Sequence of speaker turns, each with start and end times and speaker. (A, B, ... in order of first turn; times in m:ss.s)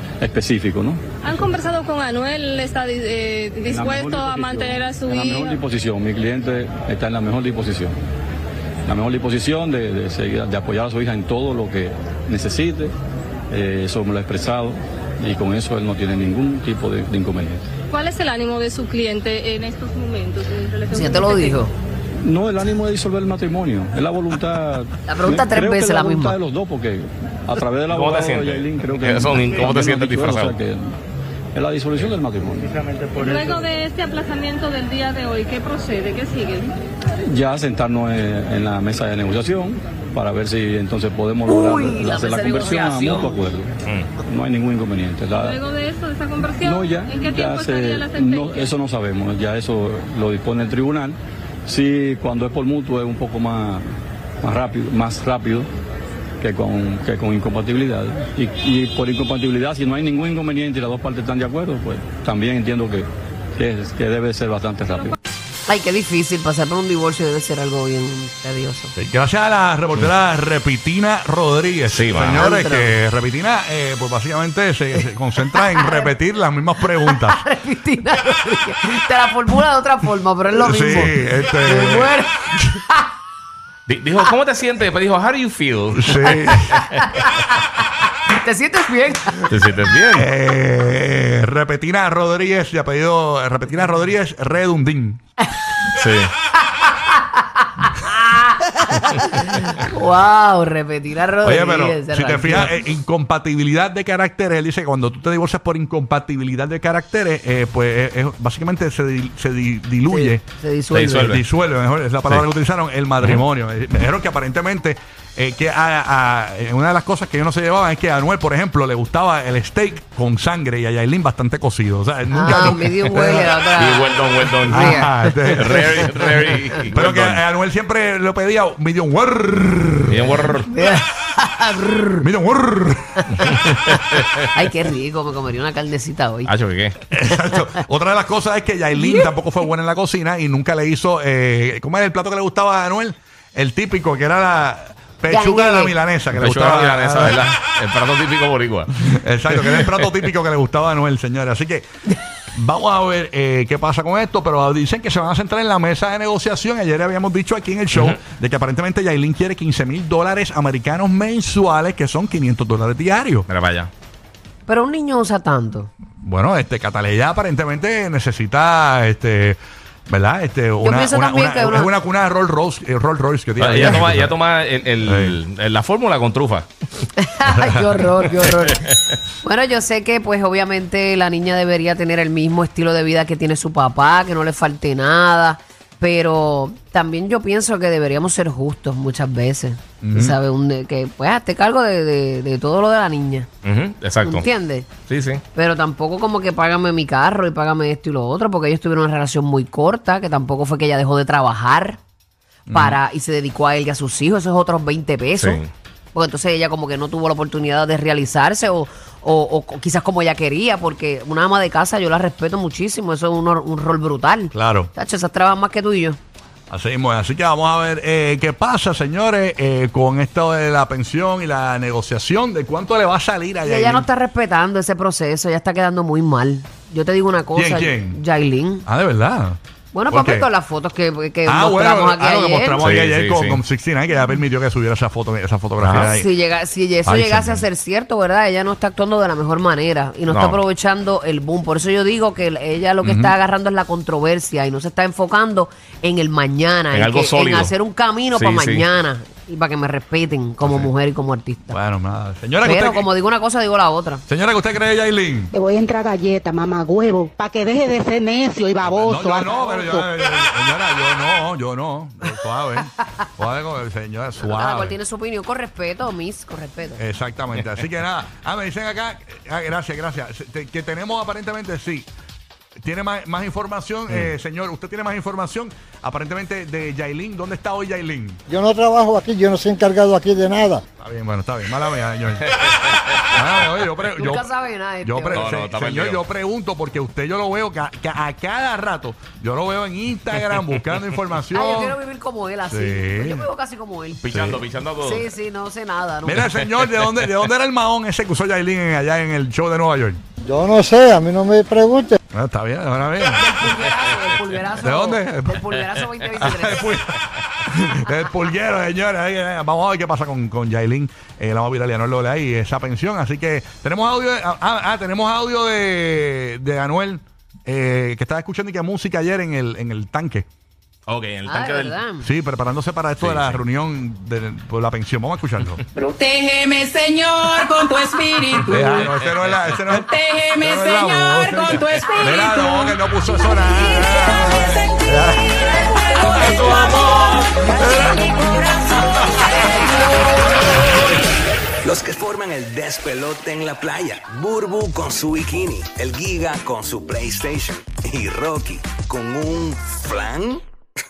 0:00.2-0:01.0 A
0:01.2-0:05.6 B
0:03.7-0:08.0 A
0:08.8-0:12.9 A
0:13.5-0:17.7 A
0:17.9-0:21.5 B
0:20.9-0:21.7 C
0:22.2-0:31.0 A
0:25.1-0:26.4 C
0:27.9-0:30.6 D
0:31.5-0:33.1 A
0:33.1-0:36.7 B
0:37.3-0:45.6 A
0:41.5-0:43.5 C
0:45.3-0:48.8 B
0:46.6-0:53.8 A
0:54.4-0:55.7 A
0:56.4-1:05.2 A
1:05.7-1:08.9 C
1:09.0-1:17.4 E
1:11.9-1:12.5 D
1:12.3-1:13.0 C
1:15.5-1:16.1 C
1:17.0-1:23.0 C
1:20.5-1:22.6 E
1:23.9-1:27.1 D
1:26.0-1:26.8 E
1:26.5-1:27.6 C
1:28.3-1:29.5 C
1:29.5-1:30.3 D
1:30.1-1:35.2 E
1:35.9-1:36.3 D
1:36.8-1:42.7 C
1:41.4-1:50.4 E
1:50.1-1:51.3 C
1:50.9-1:51.4 D
1:51.2-2:03.6 E
2:02.3-2:06.3 C
2:03.8-2:07.4 D
2:04.7-2:06.3 E
2:06.9-2:10.5 E
2:10.1-2:10.7 D
2:10.7-2:12.2 C
2:12.2-2:13.8 E
2:13.4-2:14.4 D
2:13.4-2:16.5 C
2:16.4-2:17.0 D
2:17.1-2:27.6 E
2:19.0-2:19.3 C
2:25.3-2:25.9 C
2:26.3-2:28.9 D
2:29.0-2:31.8 E
2:29.5-2:30.1 D
2:32.5-2:43.4 E
2:37.9-2:38.2 D
2:43.5-2:43.9 D
2:44.7-2:45.9 C
2:46.2-2:54.4 E
2:50.8-2:51.9 C
2:53.6-2:56.7 D
2:55.0-2:55.4 E
2:57.2-2:58.8 C
2:57.4-2:58.0 E
2:59.4-3:13.5 C
3:10.0-3:10.4 E
3:13.6-3:14.4 D
3:14.2-3:14.9 C
3:15.1-3:15.4 D
3:15.5-3:22.0 C
3:22.7-3:23.0 E
3:22.7-3:25.6 C
3:25.3-3:25.7 D
3:26.1-3:36.2 C
3:34.5-3:34.9 E
3:36.7-3:44.1 E
3:43.6-3:48.8 C
3:47.5-3:48.2 E
3:48.8-3:49.6 E
3:49.9-3:52.8 C
3:50.1-3:50.5 E
3:51.4-3:56.3 E
3:52.8-3:53.6 D
3:55.8-3:56.1 D
3:55.9-4:11.8 C
3:57.0-3:57.6 E
4:00.3-4:00.6 D
4:03.0-4:03.4 E
4:06.9-4:07.7 D
4:08.3-4:08.8 D
4:10.6-4:10.9 E
4:11.7-4:13.1 E
4:12.6-4:14.2 C
4:14.3-4:15.5 E
4:15.5-4:20.1 F
4:18.8-4:25.0 E
4:24.4-4:27.0 C
4:27.0-4:32.1 E
4:27.5-4:27.8 D
4:32.8-4:38.4 E
4:34.1-4:34.3 D
4:38.5-4:40.8 G
4:41.0-4:42.6 E
4:42.6-4:43.3 D
4:43.2-4:44.5 E
4:44.1-4:45.5 C
4:45.0-4:52.0 E
4:45.3-4:46.2 D
4:50.3-4:50.7 D
4:51.5-4:54.3 C
4:52.7-4:53.5 E
4:54.2-4:55.3 D
4:54.3-4:54.6 E
4:55.0-4:56.5 C
4:56.2-5:00.2 E
4:56.6-4:57.3 D
5:00.4-5:02.2 G
5:02.3-5:03.6 E
5:03.3-5:07.0 C
5:04.8-5:05.7 E
5:06.4-5:20.4 E
5:21.1-5:22.0 D
5:21.4-5:22.3 C
5:22.2-5:25.8 E
5:23.2-5:23.6 D
5:26.0-5:29.1 H
5:28.7-5:38.2 E
5:28.9-5:29.8 D
5:29.9-5:35.0 H
5:31.7-5:32.2 D
5:36.0-5:39.0 H
5:38.4-5:39.0 I
5:39.2-5:39.9 E
5:39.5-5:39.9 H
5:40.2-5:41.2 I
5:41.8-5:50.6 I